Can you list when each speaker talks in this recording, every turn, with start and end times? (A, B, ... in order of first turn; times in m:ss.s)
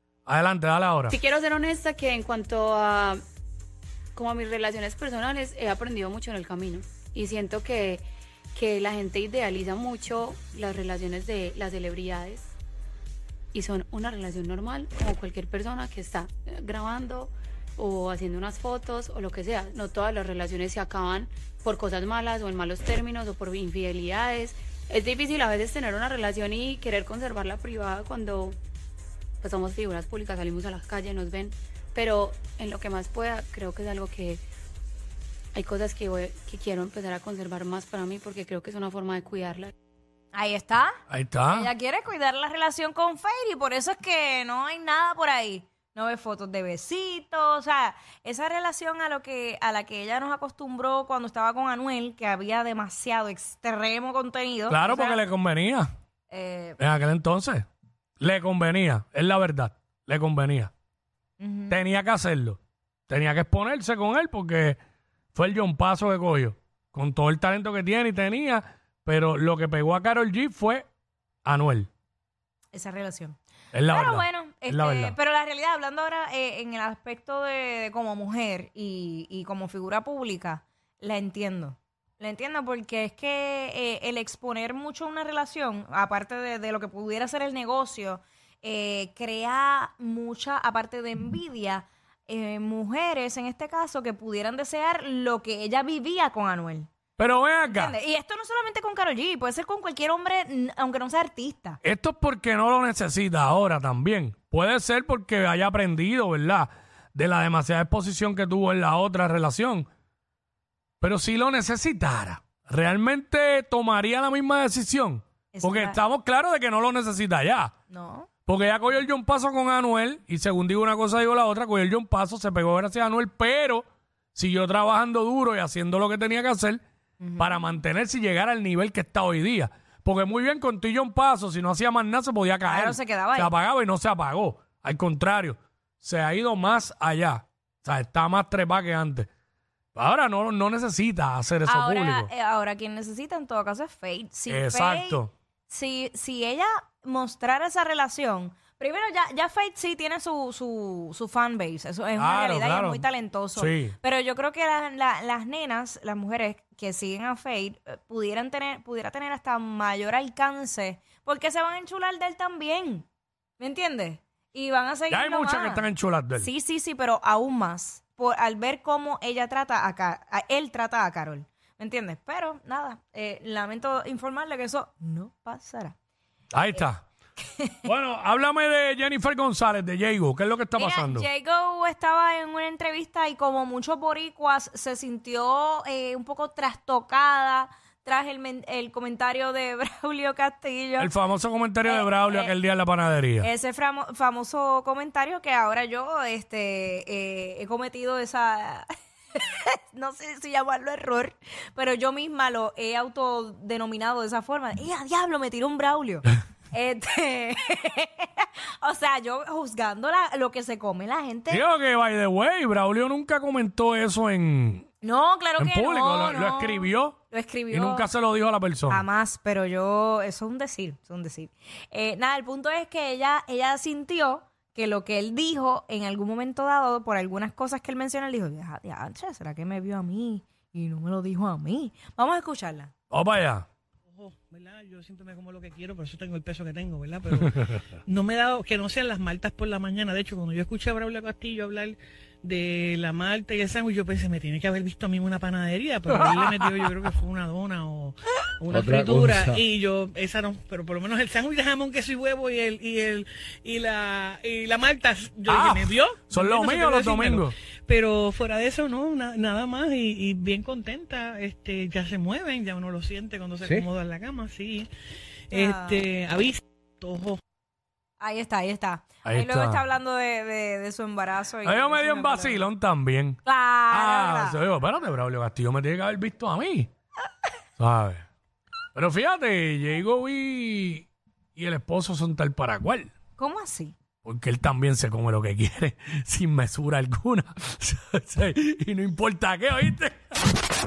0:00.3-0:01.2 A
0:01.1-0:03.2 B
0:04.2-0:12.5 B
0:13.5-0:28.6 B
0:29.4-0:34.4 B
0:35.6-0:39.7 B
0:40.3-0:41.0 C
0:41.1-0:41.7 A
0:41.5-0:55.2 C
0:54.7-0:55.9 A
0:56.3-0:56.8 C
0:56.8-0:57.7 A
0:58.2-1:00.7 A
1:01.4-1:01.8 C
1:01.7-1:02.6 A
1:03.1-1:04.8 A
1:05.4-1:10.9 A
1:11.4-1:11.9 A
1:12.7-1:36.9 C
1:13.7-1:15.2 A
1:37.2-1:38.0 A
1:37.7-1:41.8 C
1:41.8-1:49.9 A
1:51.0-1:57.7 A
1:55.5-1:56.0 C
1:57.9-1:58.3 C
1:58.5-2:06.8 A
2:07.2-2:07.6 C
2:07.4-2:19.3 A
2:12.7-2:13.6 C
2:20.0-2:22.3 A
2:21.7-2:43.1 C
2:24.5-2:25.3 A
2:32.2-2:34.0 A
2:43.6-2:56.0 C
2:45.1-2:46.5 A
2:56.5-2:57.0 A
2:57.4-2:57.8 C
2:57.8-3:01.3 A
3:00.8-3:11.1 C
3:11.0-3:13.5 A
3:11.8-3:12.5 C
3:13.4-3:31.6 C
3:31.5-3:34.9 A
3:35.0-3:38.1 C
3:35.6-3:37.2 A
3:37.7-3:39.1 A
3:38.9-3:52.9 C
3:53.1-3:53.7 A
3:54.1-4:24.9 D
4:06.1-4:06.7 A
4:15.5-4:17.5 A
4:25.5-4:26.1 C
4:25.5-4:27.4 D
4:28.2-4:32.6 C
4:29.2-4:29.9 A
4:31.6-4:36.9 A
4:33.4-4:34.6 C
4:37.8-4:38.3 A
4:39.0-4:43.1 A
4:43.4-4:44.0 C
4:44.2-4:50.2 A